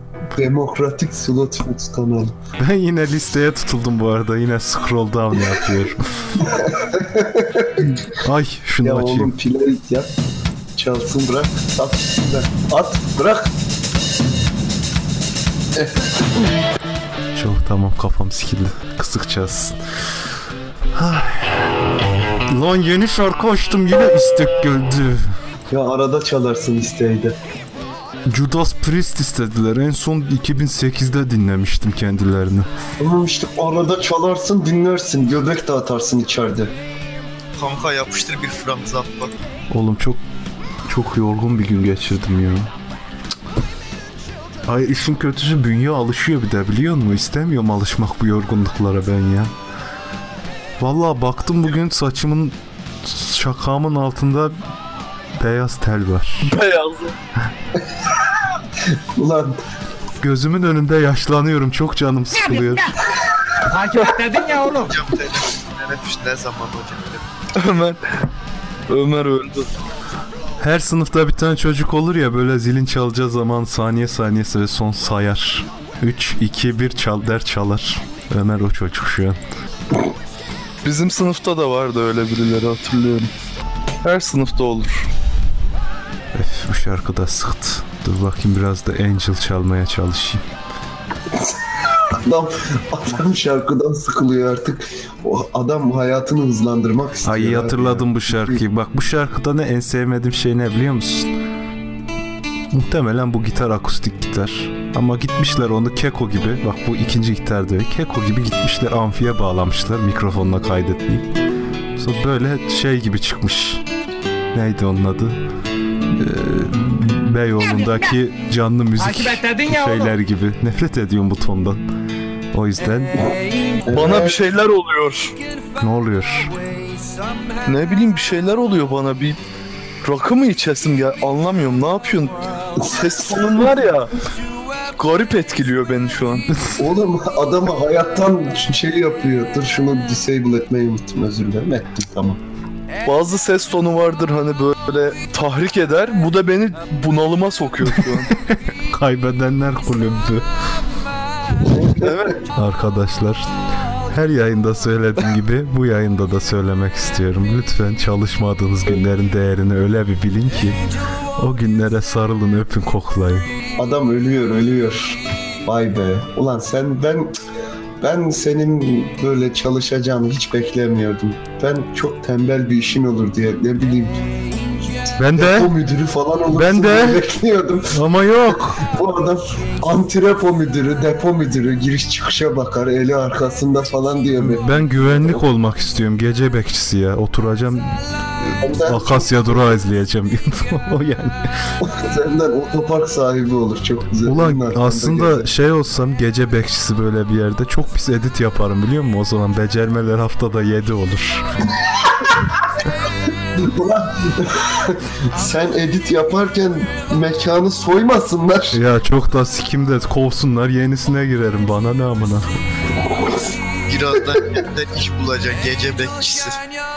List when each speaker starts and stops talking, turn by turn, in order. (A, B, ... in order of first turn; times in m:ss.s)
0:00.4-0:02.4 A
0:02.6-0:06.4 B
0:06.4-0:07.9 A
0:08.1-0:09.3 B
0:08.8-0:10.1 A
0:10.8-0:13.5 A
0:15.8-0:16.5 A
0:17.4-0:19.8 B
0:21.0-0:21.7 B
0:22.5-0:25.4 B
0:25.7-0:27.4 A
0:28.3-0:32.7 B
0:33.0-0:36.7 A
0:37.6-0:39.3 C
0:39.7-0:40.2 B
0:40.9-0:42.7 B
0:44.7-0:49.5 B
0:50.8-0:54.6 B
0:55.4-0:56.5 B
0:56.4-0:57.2 D
0:58.0-0:59.6 A
1:00.2-1:03.0 B
1:03.7-1:04.9 E
1:04.7-1:07.2 C
1:07.6-1:08.3 D
1:08.9-1:09.7 D
1:10.6-1:19.4 B
1:20.8-1:23.3 D
1:24.0-1:25.1 D
1:26.3-1:30.4 B
1:32.1-1:38.6 A
1:37.2-1:41.3 B
1:42.7-1:51.3 B
1:52.0-1:53.8 B
1:54.5-1:55.4 B
1:56.1-2:01.8 B
1:59.0-2:00.1 E
2:02.5-2:03.1 B
2:03.8-2:04.4 A
2:03.9-2:05.3 D
2:05.8-2:06.5 B
2:07.7-2:09.4 D
2:10.0-2:14.2 D
2:12.8-2:13.7 A
2:15.0-2:16.5 D
2:16.8-2:22.4 A
2:23.0-2:28.3 D
2:28.3-2:30.5 B
2:31.6-2:32.3 A
2:32.0-2:32.4 D
2:32.5-2:33.5 B
2:34.1-2:40.8 B
2:41.4-2:43.5 B
2:43.8-2:47.3 A
2:48.0-2:54.2 A
2:55.2-2:55.7 B
2:55.4-3:05.4 A
2:56.5-2:57.2 B
2:57.9-2:58.9 B
3:04.4-3:11.5 B
3:08.6-3:09.7 A
3:11.8-3:15.5 A
3:14.2-3:21.4 B
3:23.6-3:28.8 A
3:28.7-3:32.5 B
3:33.9-3:36.6 C